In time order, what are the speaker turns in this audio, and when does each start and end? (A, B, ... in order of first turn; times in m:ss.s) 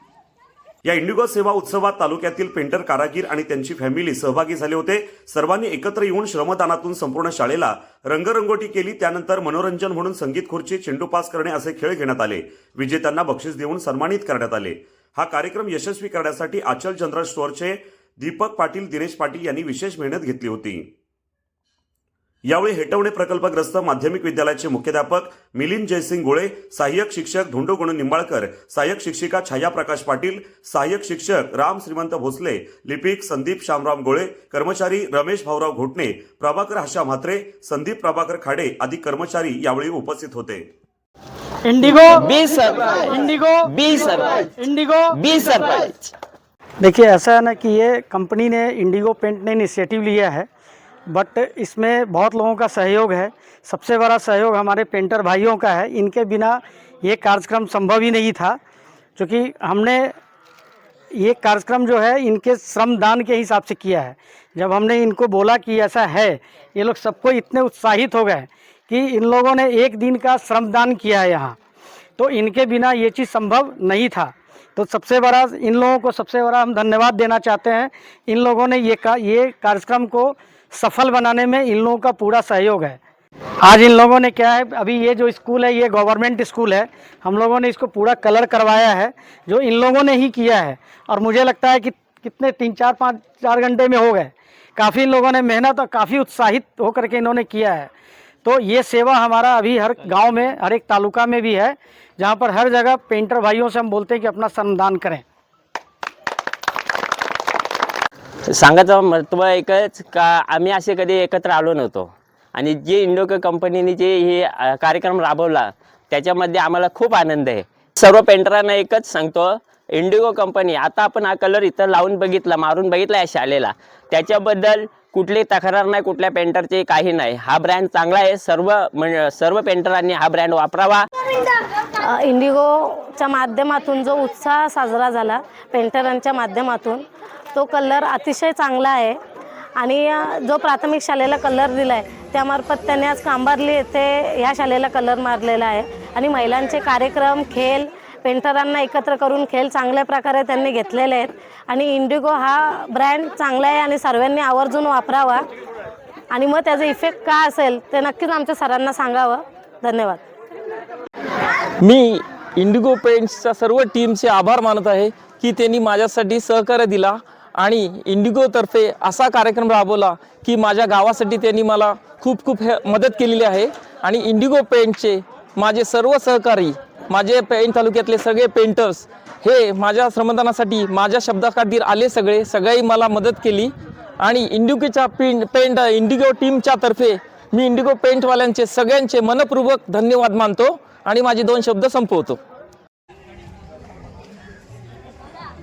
0:00.8-0:20.9 A
0:22.5-0:40.7 A
0:41.6-0:42.3 B
0:42.0-0:44.5 C
0:43.1-0:43.7 B
0:44.6-0:45.2 B
0:45.1-0:46.1 C
0:46.8-0:50.5 B
0:51.1-0:58.6 B
0:59.2-1:00.1 B
1:01.1-1:11.6 B
1:12.2-1:23.0 B
1:23.6-1:37.9 B
1:38.4-1:45.2 B
1:48.5-2:11.0 C
2:12.2-2:17.0 D
2:17.6-2:19.2 D
2:19.8-2:35.4 D
2:36.3-2:40.2 D
2:41.8-3:12.4 E